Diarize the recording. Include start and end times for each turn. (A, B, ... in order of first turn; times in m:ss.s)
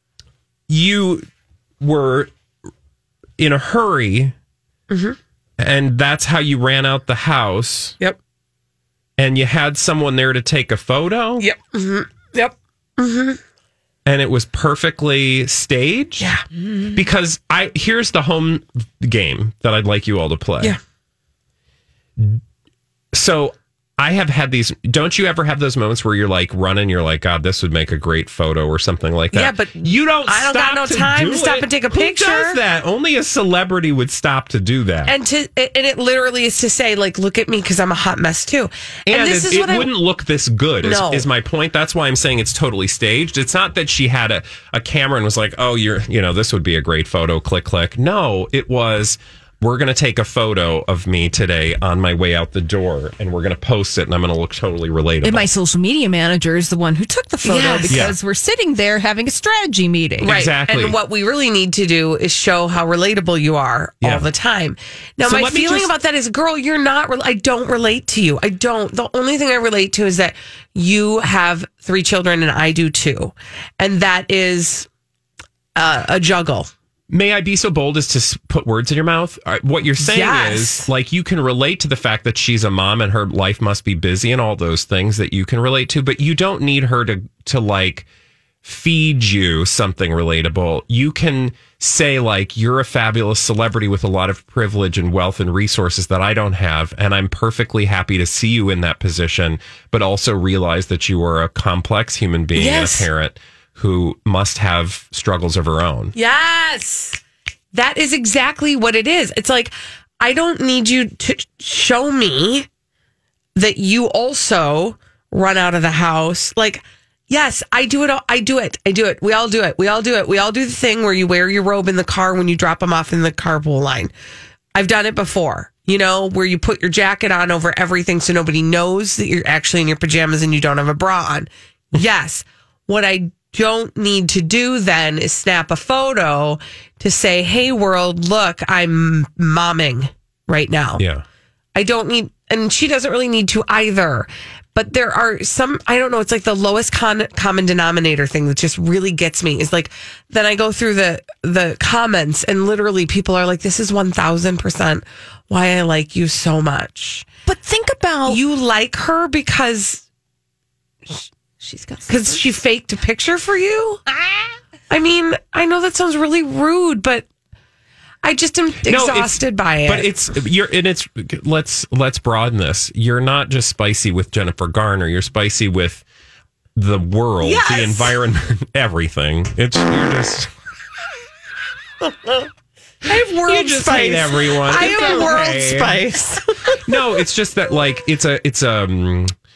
0:00.7-0:01.3 A
0:01.8-0:02.3 A
0:03.4-0:04.3 A
0:04.9-0:05.2 B
0:05.6-0:08.0 A
0:09.2-0:11.5 A
0:11.4-0:13.4 B
0:14.1-0:16.4 A
0:16.9-0:20.8 A
0:23.1-0:35.1 A
0:29.3-0:32.6 B
0:35.1-0:39.9 B
0:39.1-0:55.5 A
0:40.8-0:41.3 B
0:55.2-1:00.3 C
0:57.4-0:58.1 B
0:57.9-0:58.2 A
1:00.2-1:01.0 A
1:00.2-1:14.9 B
1:04.0-1:04.3 A
1:05.2-1:05.9 A
1:15.8-1:16.7 B
1:17.1-1:28.1 A
1:20.0-1:20.9 B
1:28.6-1:46.1 A
1:42.6-1:43.1 B
1:46.1-1:47.2 B
1:47.7-1:52.7 B
1:53.6-2:04.1 B
2:04.8-2:21.0 B
2:21.0-2:21.2 A
2:21.8-2:37.3 B
2:37.5-2:38.4 C
2:38.3-2:40.0 B
2:41.6-2:42.5 C
2:42.1-2:44.0 B
2:44.9-2:47.3 B
2:48.2-2:50.1 B
2:48.8-2:56.0 A
2:56.8-3:00.5 A
2:57.4-2:58.2 B
3:02.0-3:02.5 B
3:03.0-3:06.9 B
3:03.4-3:06.0 A
3:06.9-3:09.3 A